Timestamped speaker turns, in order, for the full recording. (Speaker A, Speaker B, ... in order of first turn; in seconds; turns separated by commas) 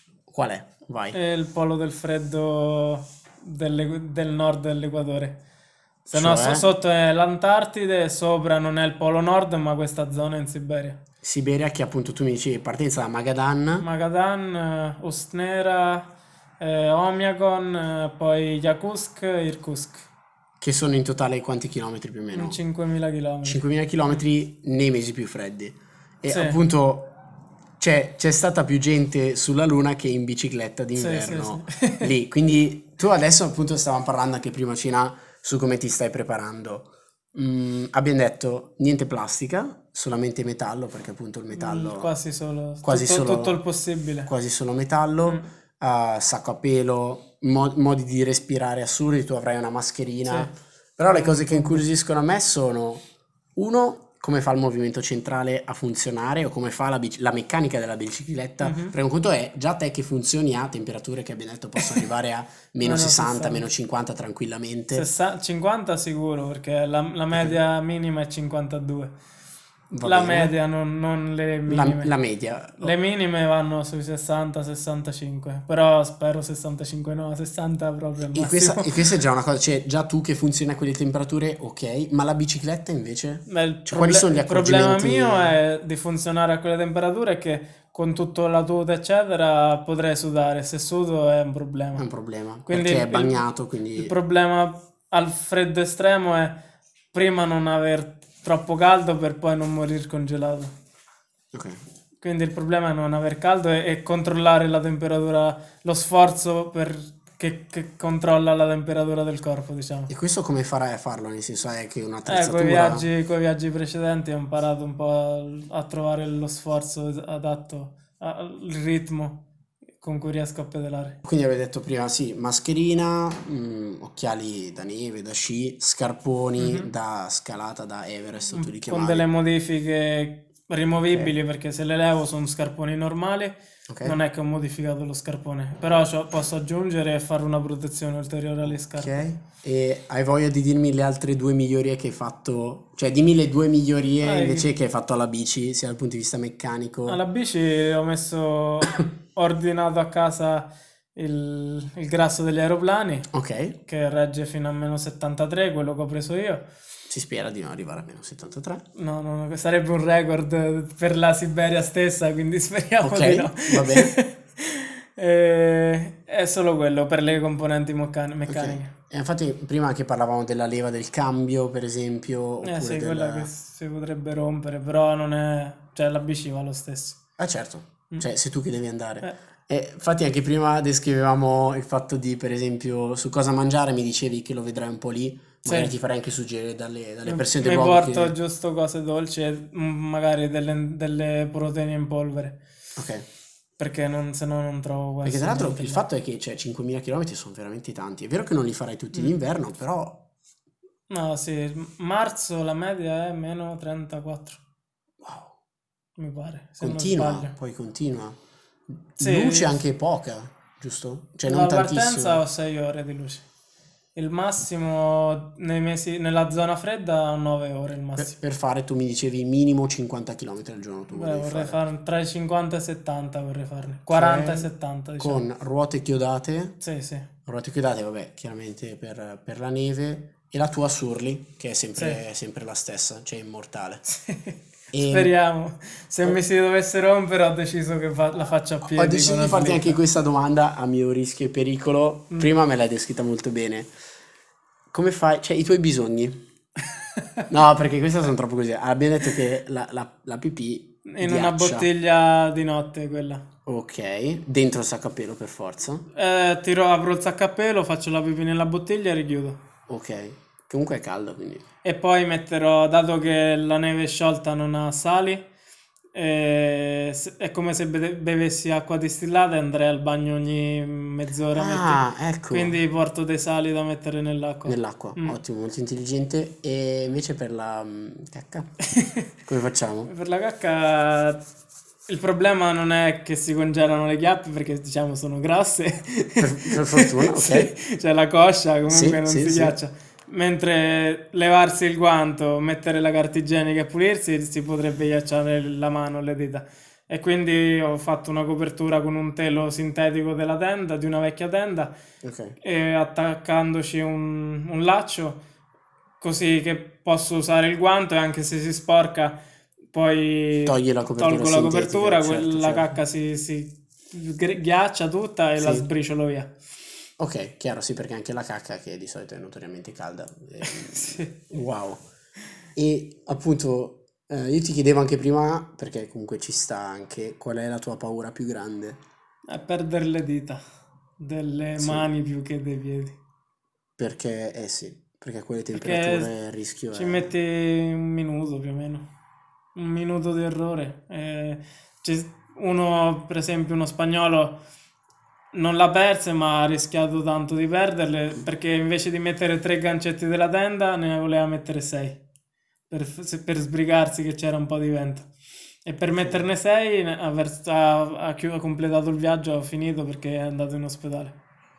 Speaker A: 0.3-1.2, Speaker B: 1.1-5.4, Speaker B: 6.0-11.0, Speaker A: 6.1-6.7, Speaker A: 11.2-13.9, Speaker B: 13.8-16.1, Speaker B: 16.6-20.1, Speaker A: 20.6-22.6, Speaker B: 22.3-23.6, Speaker A: 23.4-27.1, Speaker B: 26.3-26.6, Speaker A: 27.8-42.1, Speaker B: 31.0-32.1, Speaker B: 41.5-44.3, Speaker A: 42.8-43.6, Speaker A: 44.3-53.0, Speaker B: 50.3-50.5, Speaker B: 51.1-51.9, Speaker A: 53.6-65.1, Speaker B: 58.6-59.0, Speaker B: 61.8-62.1, Speaker B: 62.8-63.7, Speaker B: 64.9-69.2, Speaker A: 67.3-67.6, Speaker A: 69.9-70.5, Speaker B: 70.0-72.1, Speaker A: 71.7-72.9, Speaker B: 72.8-79.0, Speaker A: 78.3-85.6, Speaker B: 83.5-92.0, Speaker A: 92.0-94.1, Speaker B: 92.7-93.4, Speaker B: 94.0-96.5, Speaker B: 97.1-100.7, Speaker A: 101.5-101.8, Speaker B: 102.2-110.1, Speaker A: 110.1-113.1, Speaker B: 112.3-119.4, Speaker B: 120.0-121.2, Speaker A: 121.2-129.3, Speaker B: 126.6-126.9, Speaker B: 128.5-139.2, Speaker A: 133.9-134.2, Speaker A: 138.7-147.2, Speaker B: 144.2-144.7, Speaker B: 147.1-153.3, Speaker A: 153.3-153.8, Speaker B: 153.8-156.7, Speaker A: 157.1-158.8, Speaker B: 158.9-168.9, Speaker A: 163.0-164.1, Speaker A: 168.5-173.5, Speaker B: 172.6-177.2, Speaker A: 177.4-188.3, Speaker B: 185.7-186.0, Speaker B: 187.2-192.6, Speaker A: 193.0-193.3, Speaker B: 193.8-196.0, Speaker A: 195.2-200.2, Speaker B: 201.1-204.6, Speaker A: 205.2-205.6, Speaker B: 206.2-207.5, Speaker A: 206.8-208.4, Speaker A: 209.0-212.4, Speaker B: 209.2-209.8, Speaker B: 211.4-213.4, Speaker B: 214.2-218.3, Speaker A: 218.2-221.8, Speaker B: 221.1-225.5, Speaker A: 224.1-224.7, Speaker A: 225.2-226.8, Speaker B: 226.8-227.3, Speaker A: 227.5-234.0, Speaker B: 234.1-240.0, Speaker A: 234.9-235.3, Speaker A: 238.9-243.9, Speaker A: 244.9-246.4, Speaker A: 247.5-251.9, Speaker B: 251.1-253.4, Speaker A: 253.7-256.1, Speaker B: 256.1-259.6, Speaker A: 259.9-261.6, Speaker B: 261.8-265.5, Speaker B: 266.1-275.4, Speaker A: 271.5-272.8, Speaker A: 274.6-278.7, Speaker B: 278.9-279.3, Speaker A: 279.4-280.1, Speaker B: 280.1-281.4, Speaker B: 282.1-302.0, Speaker A: 286.4-287.7, Speaker A: 288.9-289.8, Speaker A: 302.2-302.6, Speaker B: 302.6-305.4, Speaker B: 306.2-309.4, Speaker B: 309.9-316.5, Speaker A: 310.6-313.0, Speaker A: 315.6-315.9, Speaker A: 317.2-322.1, Speaker B: 320.6-321.3, Speaker A: 322.8-329.0, Speaker B: 329.5-330.6, Speaker B: 331.2-333.2, Speaker A: 331.8-332.1, Speaker A: 334.0-337.3, Speaker B: 335.7-336.3, Speaker B: 336.9-339.1, Speaker B: 339.8-344.6, Speaker B: 345.5-352.2, Speaker B: 352.9-355.3, Speaker B: 355.9-361.4, Speaker A: 356.1-356.5